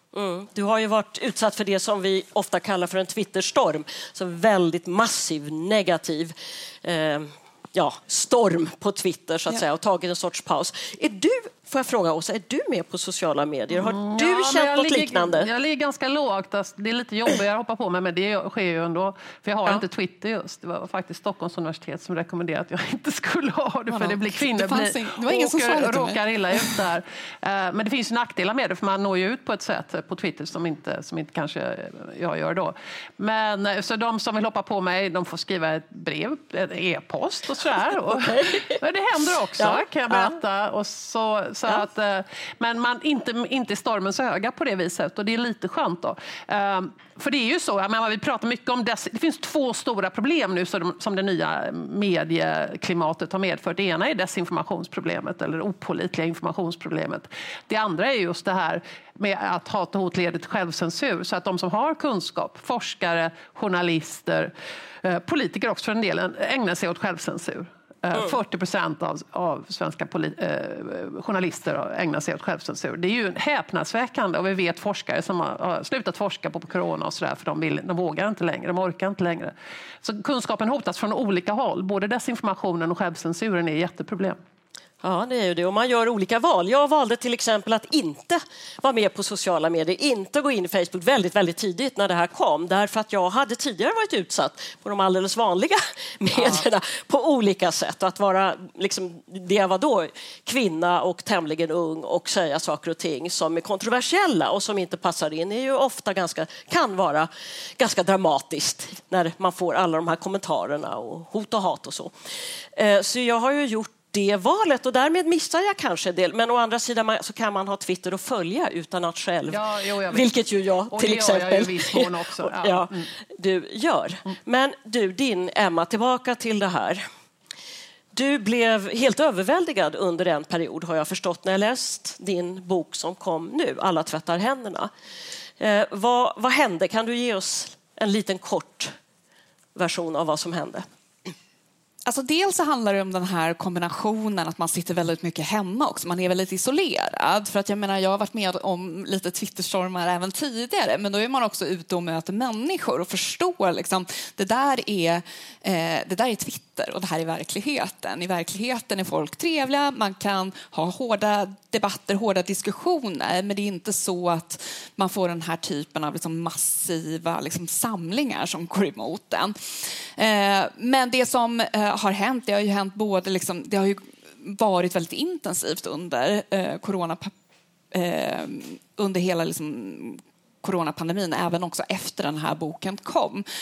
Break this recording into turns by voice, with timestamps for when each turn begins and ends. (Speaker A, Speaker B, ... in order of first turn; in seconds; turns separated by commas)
Speaker A: 0.1-15.5, Speaker B: 13.7-64.5, Speaker C: 23.9-26.8, Speaker A: 38.1-38.8, Speaker A: 39.6-40.4, Speaker B: 65.0-84.4, Speaker A: 85.0-112.1, Speaker A: 112.7-127.0, Speaker B: 119.5-120.4, Speaker B: 120.9-123.1, Speaker A: 128.1-134.9, Speaker A: 135.6-138.9, Speaker A: 139.8-141.3, Speaker C: 142.1-177.3, Speaker C: 177.9-183.4